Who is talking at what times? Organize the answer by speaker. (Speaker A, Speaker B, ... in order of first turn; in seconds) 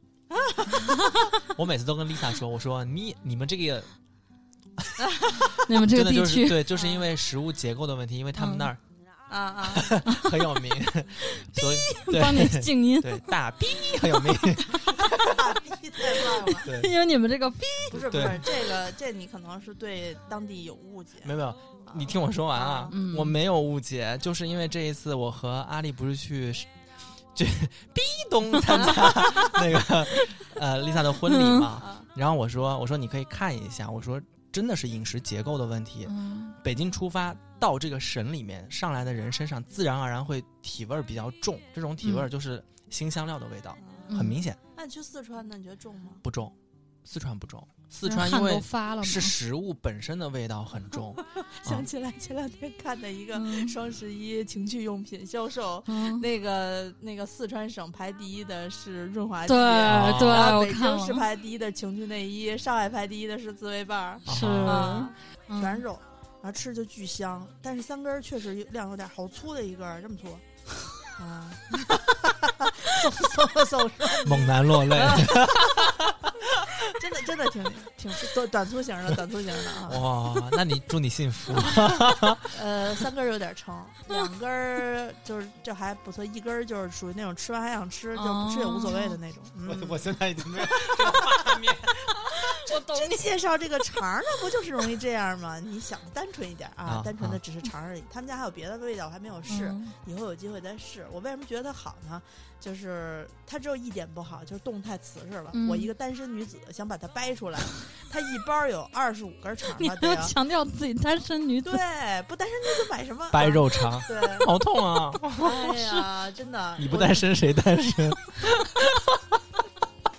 Speaker A: 0.3-0.8, 5.0-5.5, 6.8-7.1, 9.3-9.9, 14.9-16.7, 17.9-21.4, 21.9-22.9, 43.8-44.1, 44.8-46.2, 51.2-70.4, 71.2-75.8, 76.8-80.0, 82.5-91.4, 92.5-110.3, 111.7-114.5, 115.4-117.3
Speaker B: 1.5-3.9, 5.0-8.8, 9.7-15.3, 16.6-16.9, 18.1-18.5, 21.2-26.7, 27.3-44.6, 46.2-51.9, 59.9-60.5, 64.3-65.1, 74.2-76.3, 79.8-82.5, 89.7-92.2, 96.9-97.4, 113.3-116.0, 116.8-119.1
Speaker C: 5.6-6.7, 8.4-8.7, 10.0-10.5, 11.3-15.2, 16.1-18.3, 22.9-23.4, 31.3-31.8, 36.0-36.6, 42.0-42.3, 44.1-44.4, 48.0-49.4, 53.3-53.8, 55.9-56.3, 59.5-61.3, 64.3-65.8, 88.1-89.2, 92.7-93.2, 99.5-100.0, 105.5-105.9, 109.7-111.8